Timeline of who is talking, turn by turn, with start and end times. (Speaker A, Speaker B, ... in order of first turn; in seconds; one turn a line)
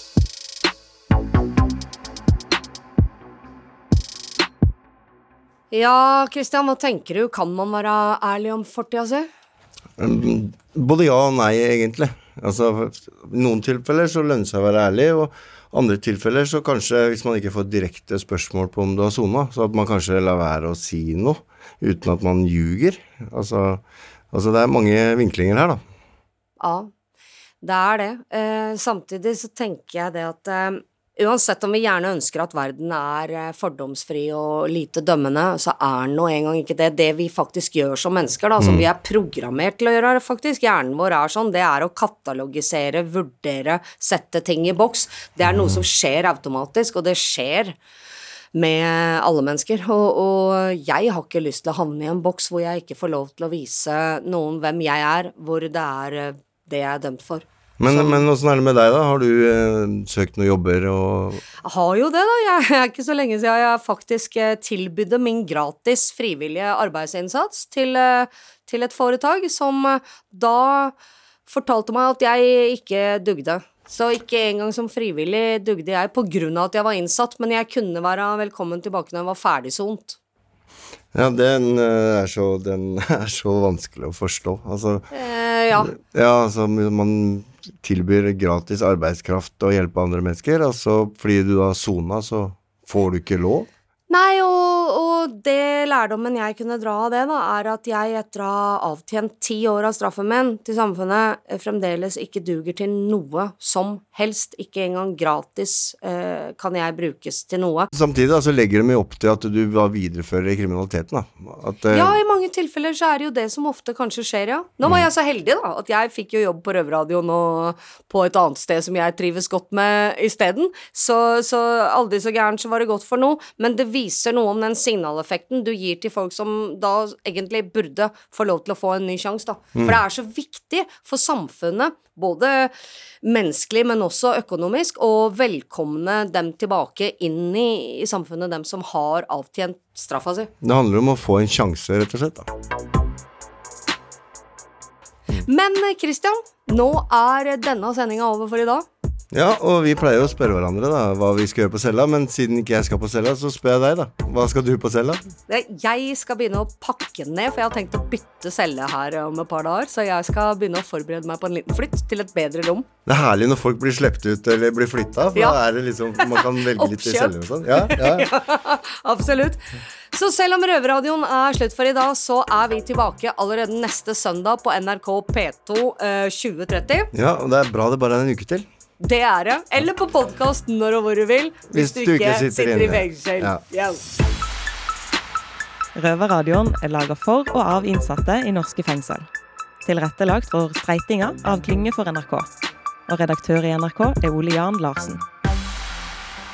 Speaker A: 5.7-9.3
Speaker B: 10.0-25.8
Speaker A: 26.6-26.9
Speaker A: 27.6-47.8
Speaker B: 38.6-38.9
Speaker B: 45.4-45.8
Speaker A: 48.5-58.2
Speaker B: 57.8-61.4
Speaker A: 61.6-71.0
Speaker A: 71.5-80.2
Speaker B: 81.1-85.0
Speaker A: 85.1-85.9
Speaker B: 85.8-93.7
Speaker A: 94.1-107.9
Speaker B: 107.9-112.2
Speaker A: 111.9-140.5
Speaker B: 140.6-142.5
Speaker A: 145.4-148.8
Speaker B: 149.3-155.2
Speaker A: 155.5-162.9
Speaker B: 163.1-168.3
Speaker A: 166.2-177.1
Speaker B: 177.1-178.7
Speaker A: 179.0-184.0
Speaker B: 181.7-183.6
Speaker C: 185.9-189.3
Speaker C: 189.8-192.5
Speaker C: 193.1-195.2